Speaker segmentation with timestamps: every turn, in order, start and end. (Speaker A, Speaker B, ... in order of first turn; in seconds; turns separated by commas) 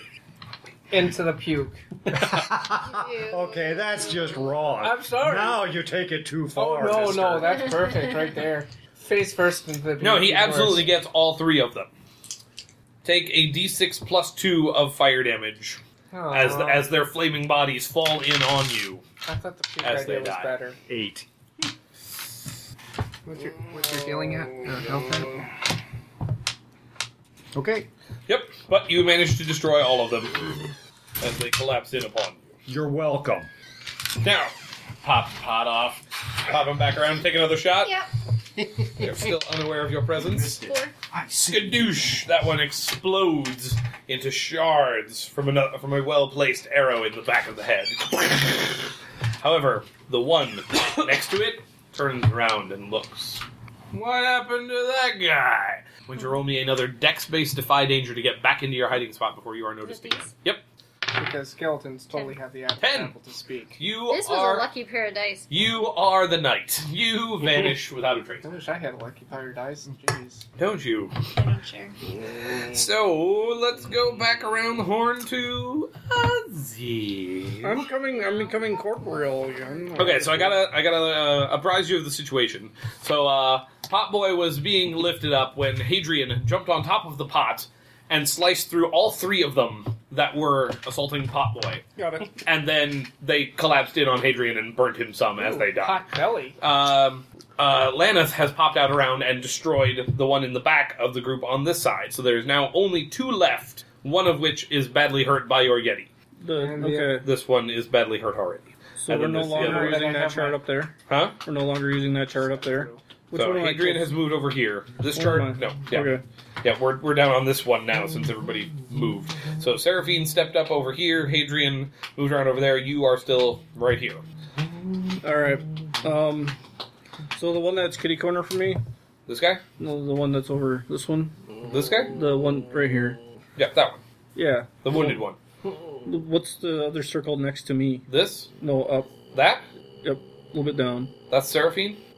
Speaker A: 0.9-1.8, Speaker B: 2.1-7.7, Speaker C: 2.8-3.5, Speaker A: 4.8-5.7, Speaker A: 6.5-10.9, Speaker D: 10.0-11.9, Speaker D: 13.0-19.0, Speaker A: 16.1-16.9, Speaker A: 19.2-20.8, Speaker D: 19.8-20.5, Speaker B: 20.9-21.3, Speaker A: 23.3-25.3, Speaker B: 27.5-27.9, Speaker D: 28.3-32.4, Speaker B: 32.7-33.5, Speaker D: 34.2-38.0, Speaker C: 37.8-38.1, Speaker D: 38.9-40.6, Speaker B: 40.2-42.0, Speaker C: 40.4-40.9, Speaker D: 41.5-48.7, Speaker D: 49.4-60.6, Speaker C: 59.8-60.3, Speaker A: 61.1-63.8, Speaker D: 62.8-63.1, Speaker D: 63.8-64.7, Speaker C: 64.1-65.5, Speaker D: 65.5-68.5, Speaker A: 68.4-70.5, Speaker D: 70.6-71.2, Speaker C: 71.3-72.0, Speaker D: 72.6-77.8, Speaker E: 77.6-80.5, Speaker D: 80.0-91.8, Speaker A: 92.0-92.2, Speaker D: 92.4-96.0, Speaker A: 95.4-96.6, Speaker D: 96.6-106.1, Speaker E: 106.4-107.3, Speaker A: 106.6-107.1, Speaker D: 107.2-110.1, Speaker E: 109.0-114.1, Speaker A: 109.5-110.6, Speaker D: 111.1-111.4, Speaker A: 112.3-113.0, Speaker D: 113.3-116.1, Speaker E: 115.2-116.2, Speaker D: 116.6-124.2, Speaker E: 125.2-126.6, Speaker E: 127.3-128.8, Speaker D: 129.3-129.6, Speaker E: 129.8-131.4, Speaker D: 131.6-132.1, Speaker E: 132.1-133.2, Speaker D: 133.6-134.0, Speaker E: 134.3-135.2, Speaker D: 134.8-135.4, Speaker E: 136.0-138.1, Speaker D: 138.1-138.5, Speaker E: 138.6-139.1, Speaker D: 139.3-139.7, Speaker E: 140.0-141.1, Speaker D: 141.3-142.0